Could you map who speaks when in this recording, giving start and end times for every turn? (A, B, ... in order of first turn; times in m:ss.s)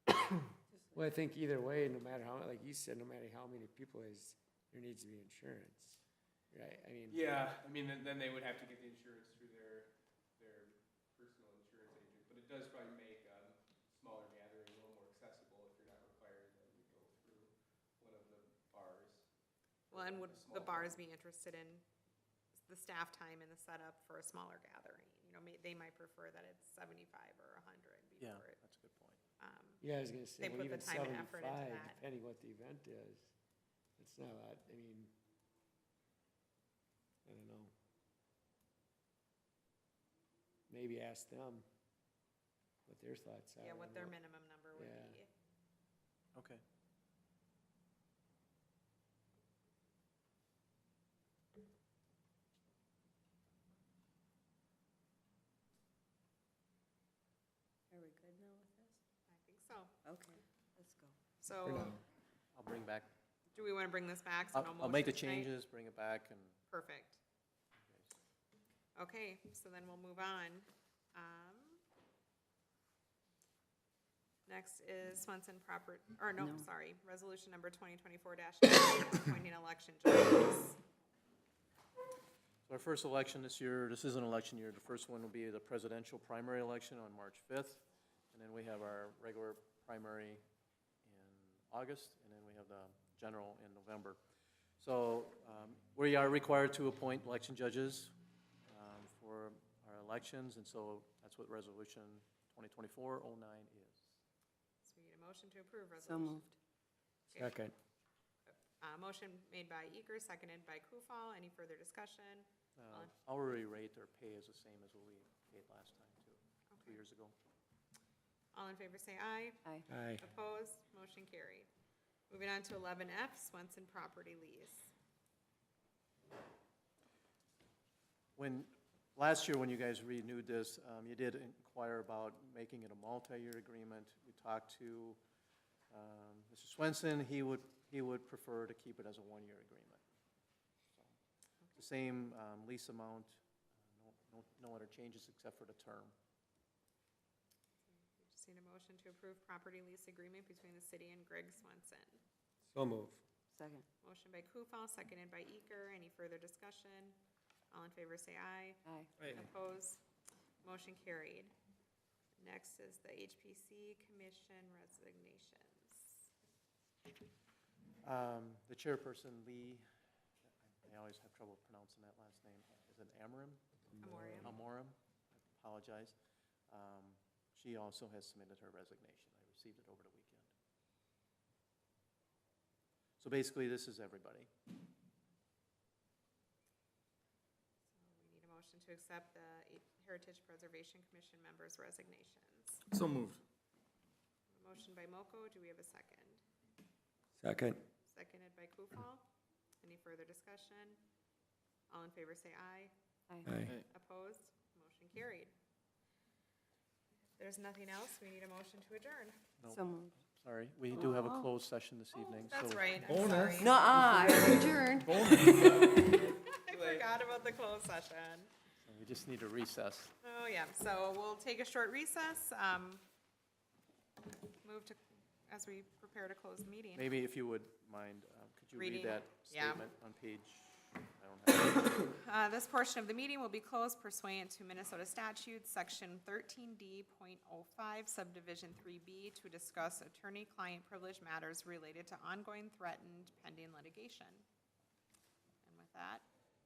0:00.9-0:07.2 A
0:07.1-0:19.3 B
0:19.9-0:21.0 B
0:19.9-0:21.8 C
0:22.6-0:28.6 C
0:28.2-0:29.2 D
0:29.4-0:29.8 C
0:29.8-0:33.3 A
0:30.4-0:32.0 C
0:34.0-0:35.1 A
0:37.2-0:37.7 A
0:40.7-0:41.6 A
0:42.8-0:44.2 A
0:43.6-0:45.3 C
0:44.7-0:45.2 A
0:46.3-0:46.6 D
0:57.9-0:59.0 E
0:59.3-0:59.9 C
1:00.0-1:01.2 E
1:01.4-1:02.0 C
1:01.7-1:01.9 A
1:02.5-1:03.1 D
1:03.5-1:05.5 C
1:04.5-1:06.6 D
1:06.7-1:07.2 C
1:07.8-1:08.1 D
1:09.0-1:11.8 C
1:14.5-1:20.8 C
1:22.7-1:30.4 D
1:31.0-1:34.2 D
1:34.8-1:38.1 D
1:38.7-1:44.1 D
1:44.8-1:46.5 C
1:46.0-1:46.5 E
1:47.3-1:47.7 A
1:48.5-1:53.1 C
1:52.8-1:57.3 D
1:56.7-1:57.0 C
1:58.5-2:01.7 C
1:59.9-2:00.2 A
2:02.3-2:04.9 C
2:08.4-2:15.2 D
2:15.9-2:20.0 D
2:21.7-2:23.4 D
2:23.9-2:26.1 D
2:27.9-2:32.2 C
2:32.7-2:33.2 A
2:33.5-2:33.8 E
2:34.0-2:37.2 C
2:37.7-2:40.0 C
2:38.8-2:39.1 E
2:40.6-2:41.5 C
2:42.4-2:46.2 C
2:48.0-2:49.8 D
2:50.6-2:53.6 D
2:53.9-2:54.5 A
2:54.0-2:54.5 C
2:54.3-2:56.2 D
2:56.7-3:00.5 D
3:03.2-3:04.5 D
3:07.9-3:12.8 C
3:12.9-3:13.4 F
3:14.5-3:16.4 C
3:17.4-3:17.8 A
3:18.1-3:19.2 C
3:19.8-3:21.0 C
3:21.9-3:22.9 C
3:23.4-3:23.8 A
3:23.9-3:25.5 C
3:27.4-3:29.4 C
3:29.6-3:33.0 D
3:29.7-3:30.1 E
3:31.0-3:31.4 E
3:32.2-3:34.0 C
3:33.0-3:35.5 F
3:33.6-3:36.3 E
3:36.0-3:38.5 C
3:38.8-3:40.1 D
3:40.2-3:43.0 C
3:44.6-3:47.0 C
3:46.9-3:52.1 D
3:48.8-3:49.8 C
3:51.7-4:04.4 C
4:05.6-4:06.2 C